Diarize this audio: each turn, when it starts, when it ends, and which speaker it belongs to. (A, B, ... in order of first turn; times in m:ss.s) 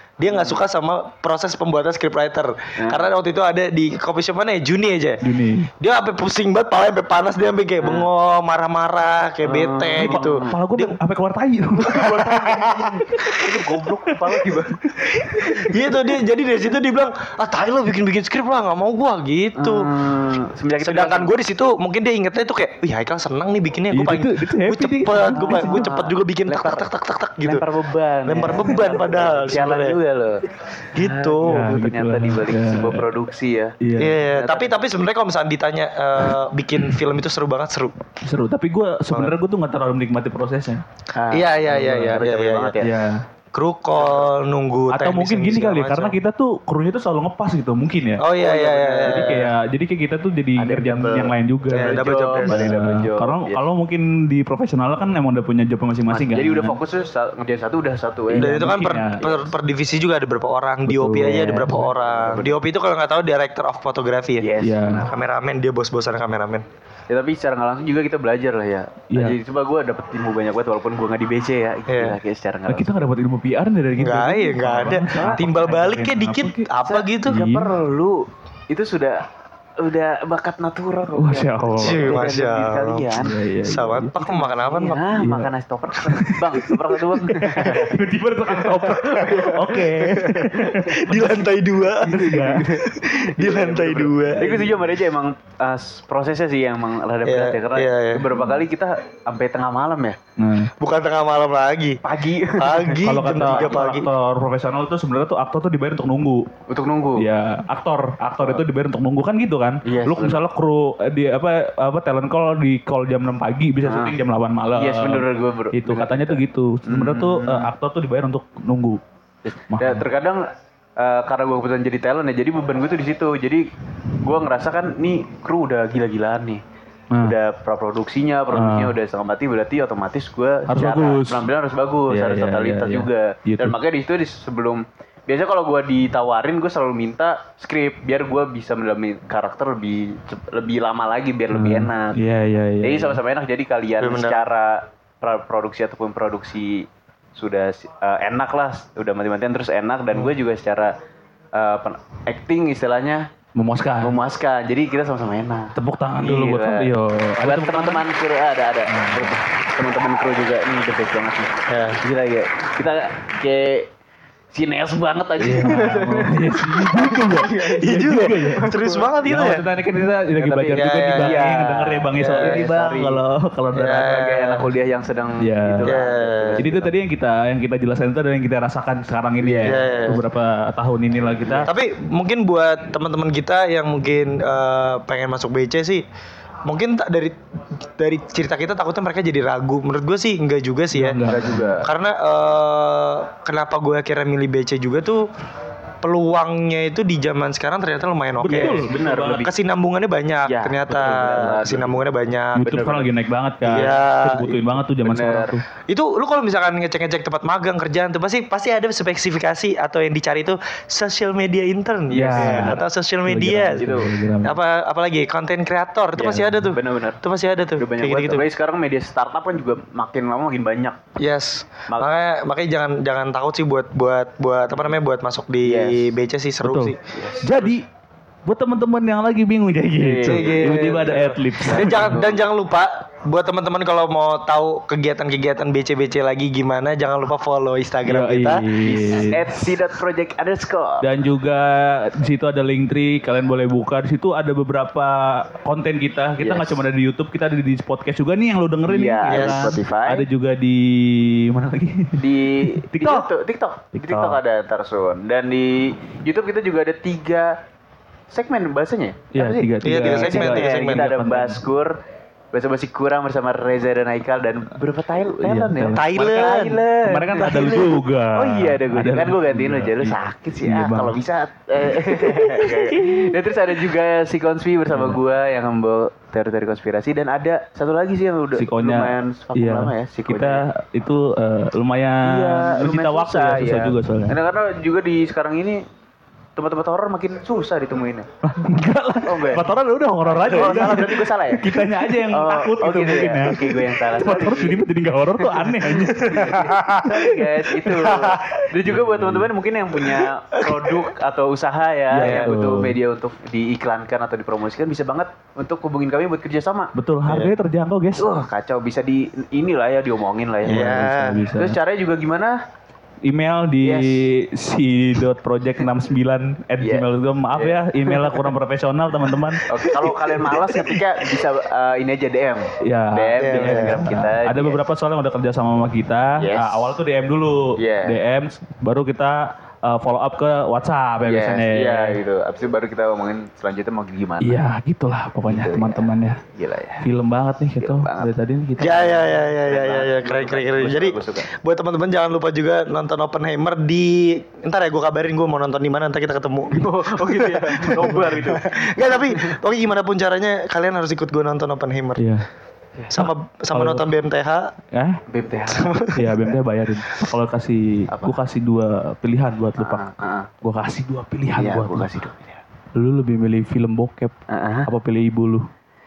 0:00.2-0:05.2 A
0:00.3-0:00.6 B
0:02.8-0:03.1 B
0:05.2-0:05.7 C
0:05.8-0:11.0 A
0:07.8-0:08.1 B
0:09.4-0:10.5 B
0:10.0-0:13.5 C
0:11.8-0:13.4 A
0:11.9-0:14.8 B
0:14.3-0:15.7 C
0:15.1-0:19.9 A
0:15.4-0:15.8 B
0:19.6-0:21.3 B
0:20.8-0:27.6 A
0:23.9-0:25.9 C
0:25.3-0:26.9 B
0:27.4-0:33.8 B
0:28.2-0:30.0 A
0:30.9-0:31.6 A
0:31.4-0:33.1 C
0:33.8-0:34.2 C
0:34.0-0:38.0 A
0:34.3-0:34.8 B
0:38.2-0:40.8 C
0:39.1-0:39.4 A
0:41.1-0:42.9 B
0:41.3-0:42.7 A
0:41.7-0:42.2 C
0:42.8-0:43.2 C
0:43.5-0:46.2 A
0:43.9-0:44.3 B
0:44.9-0:48.2 C
0:48.2-0:49.5 A
0:48.3-0:49.5 B
0:49.0-0:56.8 C
0:50.6-0:53.6 B
0:51.7-0:52.7 A
0:56.1-0:59.5 B
0:58.3-0:59.2 C
0:58.3-1:04.5 A
1:00.8-1:01.9 C
1:01.8-1:02.6 B
1:04.4-1:05.1 B
1:04.6-1:05.1 C
1:05.1-1:06.6 A
1:07.1-1:12.9 B
1:09.1-1:09.4 C
1:11.9-1:12.2 A
1:12.7-1:16.7 C
1:14.0-1:17.4 A
1:15.1-1:15.6 B
1:16.8-1:19.2 B
1:17.2-1:17.7 C
1:19.8-1:23.4 B
1:21.2-1:22.2 C
1:21.8-1:25.0 A
1:23.2-1:24.2 C
1:24.2-1:28.0 B
1:25.2-1:25.5 C
1:26.0-1:32.7 C
1:28.5-1:30.8 B
1:29.3-1:29.8 A
1:30.8-1:34.8 A
1:32.0-1:40.2 B
1:37.2-1:38.3 A
1:38.3-1:38.6 C
1:40.4-1:40.7 C
1:40.8-1:42.0 A
1:42.0-1:43.8 B
1:42.6-1:44.1 A
1:43.0-1:46.4 C
1:46.7-1:47.2 B
1:47.2-1:59.0 C
1:49.8-1:50.4 B
1:53.8-1:54.2 B
1:54.7-1:57.7 B
1:59.4-2:00.5 B
1:59.7-2:00.0 C
2:01.0-2:03.7 B
2:04.2-2:06.6 B
2:07.2-2:22.2 B
2:08.5-2:08.9 C
2:10.7-2:11.5 C
2:12.1-2:13.8 C
2:21.5-2:23.2 C
2:22.8-2:30.9 B
2:24.0-2:24.4 A
2:31.5-2:33.2 B
2:33.6-2:34.2 C
2:34.0-2:43.9 B
2:35.8-2:38.0 C
2:38.9-2:39.4 C
2:41.7-2:42.0 A
2:44.5-2:49.1 B
2:45.4-2:54.3 C
2:47.8-2:49.6 A
2:50.4-2:53.2 B
2:50.8-2:51.4 A
2:52.1-2:52.6 A
2:53.7-2:54.7 A
2:54.0-2:56.9 B
2:55.4-2:55.9 C
2:55.8-2:56.7 A
2:56.6-3:01.7 C
2:59.4-3:00.1 B
2:59.6-3:00.2 A
3:01.4-3:01.7 B
3:01.7-3:06.0 A
3:06.6-3:11.2 A
3:10.9-3:11.8 C
3:11.2-3:11.9 B
3:11.8-3:15.3 A
3:16.0-3:18.8 A
3:18.4-3:19.5 C
3:18.5-3:19.5 B
3:19.4-3:23.1 A
3:20.4-3:22.0 B
3:20.9-3:21.6 C
3:22.5-3:25.6 C
3:23.6-3:24.7 A
3:25.0-3:25.5 B
3:25.9-3:38.4 A
3:32.1-3:32.8 B
3:32.1-3:34.6 C
3:33.8-3:34.1 B
3:36.2-3:37.2 B
3:37.8-3:41.0 B
3:41.2-3:47.0 A
3:45.6-3:46.1 B
3:46.6-3:47.8 C
3:47.1-3:47.8 B
3:48.4-3:52.2 C
3:50.0-3:52.4 B
3:50.2-3:58.6 A
3:58.0-3:59.7 C
3:58.8-4:01.0 B
4:01.0-4:13.3 C
4:06.4-4:06.8 B
4:08.9-4:10.2 B
4:09.3-4:09.8 A
4:12.2-4:17.5 B
4:13.9-4:14.4 C
4:18.3-4:22.0 B
4:19.3-4:21.6 C
4:19.8-4:21.1 A
4:22.5-4:40.6 B
4:25.4-4:31.2 C
4:26.0-4:26.8 A
4:27.4-4:27.8 A
4:32.2-4:33.3 C
4:34.9-4:35.2 C
4:38.6-4:44.4 C
4:42.2-4:45.8 B
4:46.6-4:48.3 B
4:48.4-4:57.4 C
4:49.2-4:49.7 B
4:50.2-4:54.8 B
4:50.5-4:51.0 A
4:55.4-5:06.9 B
4:56.1-4:56.4 A
4:57.8-4:58.6 A
4:58.8-4:59.5 C
5:00.1-5:01.0 A
5:02.1-5:02.9 C
5:06.9-5:08.2 C
5:08.2-5:12.6 B
5:10.6-5:11.4 A
5:10.7-5:11.8 C
5:13.2-5:19.6 C
5:13.8-5:14.2 B
5:16.8-5:18.4 B
5:19.7-5:24.8 B
5:20.0-5:21.0 A
5:22.8-5:32.2 C
5:23.4-5:24.1 A
5:26.4-5:26.9 B
5:27.8-5:28.2 B
5:31.2-5:34.6 B
5:34.4-5:36.4 C
5:35.5-5:37.1 B
5:37.0-5:39.4 C
5:37.8-5:38.3 B
5:38.8-5:52.2 A
5:39.5-5:41.5 B
5:46.7-5:49.6 B
5:47.9-5:48.6 C
5:52.2-5:52.4 C
5:53.1-5:54.7 A
5:53.2-5:54.0 C
5:54.9-5:55.2 C
5:55.3-5:55.9 B
5:55.7-5:56.4 A
5:56.1-6:00.0 C
5:59.8-6:00.5 B
6:00.6-6:02.1 C
6:01.6-6:02.6 B
6:03.0-6:04.3 C
6:04.5-6:04.9 B
6:04.9-6:05.6 C